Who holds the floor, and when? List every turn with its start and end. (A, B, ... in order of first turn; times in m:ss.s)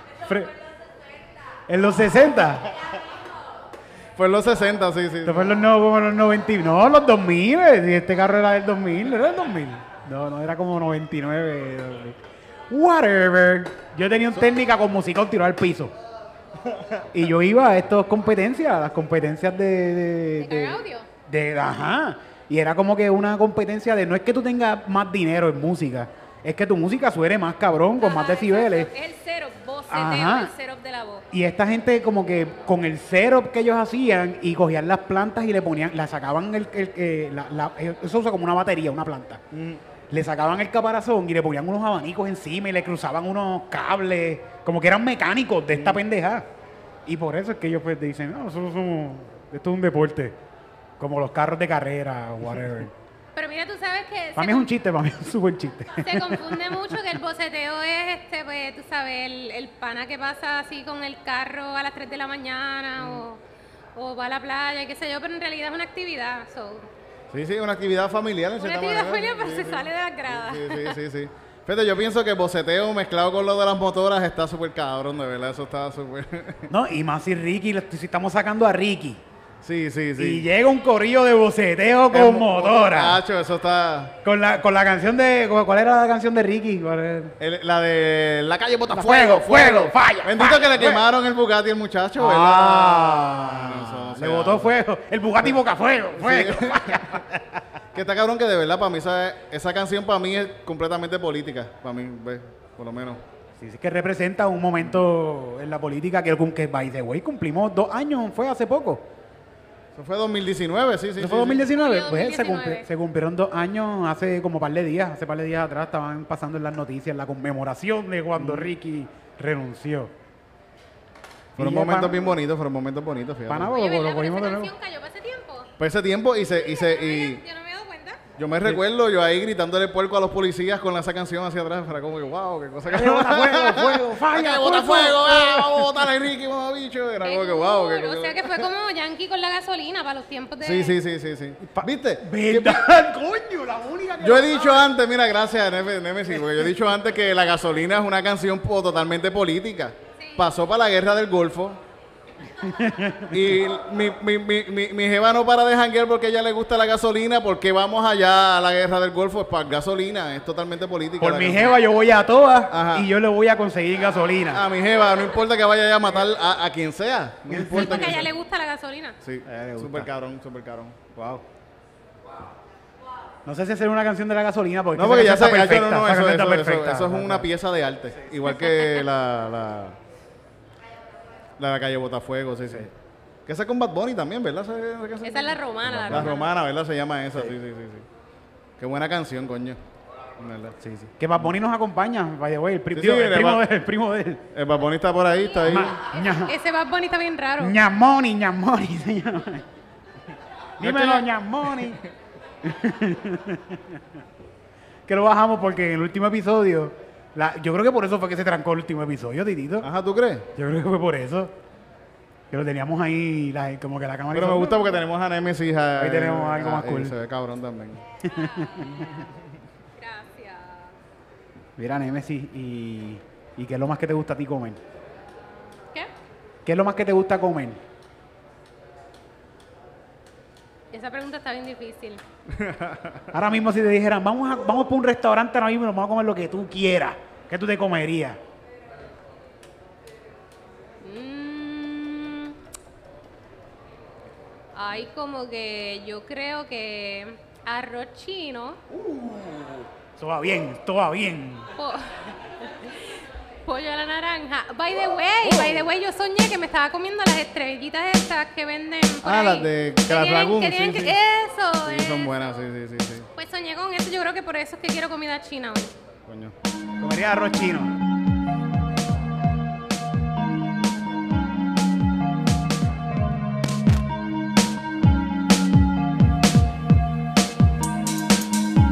0:01.7-0:02.7 A
0:04.2-0:05.6 B
0:05.2-0:12.2 A
0:12.7-0:15.9 A
0:17.1-0:28.9 A
0:20.4-0:21.0 C
0:28.0-0:31.2 C
0:29.9-0:30.5 A
0:31.3-0:39.4 A
0:39.5-0:39.8 B
0:40.1-0:46.4 A
0:45.7-0:46.0 B
0:47.0-0:50.4 A
0:51.0-0:52.9 A
0:53.3-0:54.7 C
0:54.4-0:56.7 A
0:56.0-1:03.4 C
1:04.0-1:06.9 C
1:07.3-1:16.7 B
1:08.6-1:11.0 C
1:16.7-1:19.2 A
1:19.6-1:20.4 B
1:20.2-1:23.2 A
1:22.1-1:24.1 B
1:24.2-1:27.3 A
1:27.4-1:34.7 B
1:28.9-1:31.0 A
1:32.2-1:37.6 A
1:36.2-1:37.2 B
1:37.9-1:43.2 B
1:43.6-1:49.0 A
1:49.9-1:51.7 B
1:51.2-2:00.1 A
1:51.7-1:52.8 C
1:58.4-1:58.7 B
2:01.6-2:03.8 B
2:01.6-2:02.4 A
2:03.5-2:04.7 A
2:03.7-2:05.7 C
2:05.8-2:07.4 B
2:06.5-2:08.2 C
2:08.4-2:18.6 B
2:12.8-2:16.0 A
2:17.2-2:21.0 C
2:20.6-2:22.9 B
2:21.6-2:24.8 A
2:24.2-2:31.8 B
2:30.2-2:30.4 C
2:32.6-2:33.3 A
2:33.3-2:41.8 B
2:41.2-2:44.6 A
2:42.7-2:43.1 B
2:44.5-2:48.3 B
2:47.5-2:48.1 A
2:47.7-2:49.2 C
2:49.2-2:51.0 B
2:49.4-2:50.1 A
2:51.1-2:51.4 A
2:53.4-2:57.5 A
2:55.0-3:00.0 B
3:01.6-3:02.9 B
3:03.4-3:08.0 B
3:05.2-3:06.5 C
3:08.8-3:09.8 B
3:10.4-3:11.5 B
3:11.2-3:14.4 A
3:12.9-3:13.6 B
3:14.5-3:16.0 B
3:15.7-3:16.5 A
3:16.1-3:17.8 C
3:17.6-3:19.6 A
3:20.8-3:21.9 B
3:20.8-3:22.0 A
3:22.6-3:24.0 A
3:25.1-3:29.9 A
3:29.8-3:30.4 B
3:30.5-3:31.5 A
3:32.5-3:35.0 A
3:34.3-3:38.0 B
3:36.0-3:37.1 A
3:38.2-3:39.0 A
3:38.2-3:39.1 C
3:40.0-3:40.9 C
3:41.8-3:44.8 A
3:46.6-3:47.8 A
3:50.9-3:52.2 C
3:52.6-3:53.2 B
3:53.3-3:58.4 A
4:01.0-4:02.5 C
4:04.8-4:08.8 C
4:09.0-4:11.7 A
4:11.8-4:12.1 C
4:13.6-4:22.3 C
4:19.2-4:21.2 B
4:21.8-4:23.3 B
4:23.4-4:25.9 C
4:26.3-4:26.5 B
4:27.0-4:27.9 A